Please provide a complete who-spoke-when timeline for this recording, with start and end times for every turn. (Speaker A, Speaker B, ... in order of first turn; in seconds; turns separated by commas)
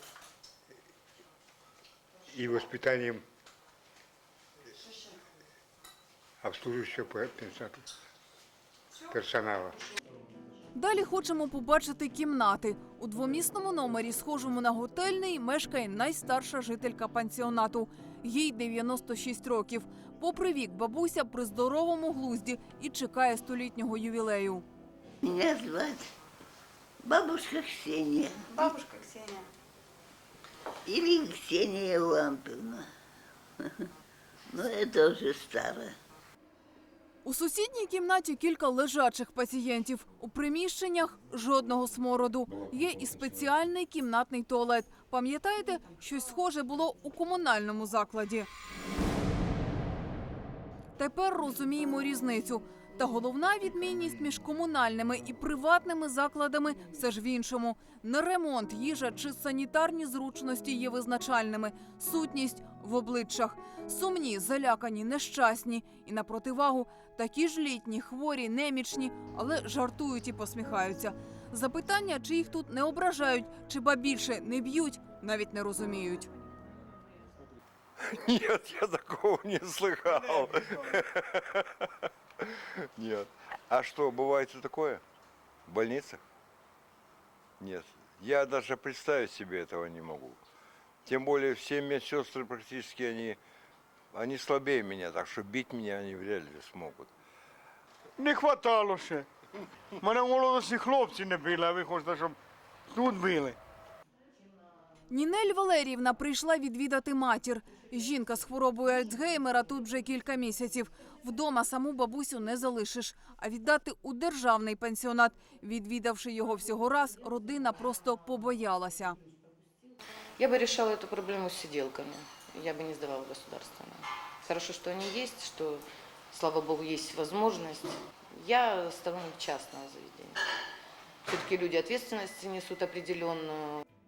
Speaker A: 2.3-3.2, Speaker A: 6.4-7.9, Speaker A: 9.1-9.8, Speaker B: 10.8-24.6, Speaker C: 25.2-26.1, Speaker C: 27.0-28.4, Speaker C: 30.9-32.9, Speaker C: 34.5-35.9, Speaker B: 37.2-48.5, Speaker B: 51.0-76.3, Speaker D: 78.0-81.7, Speaker D: 83.0-85.0, Speaker D: 85.7-86.2, Speaker D: 87.6-90.4, Speaker D: 91.0-93.4, Speaker D: 94.1-97.1, Speaker E: 98.2-99.2, Speaker E: 100.0-102.3, Speaker E: 102.9-103.5, Speaker B: 105.1-119.2, Speaker F: 120.4-130.3, Speaker F: 131.3-133.8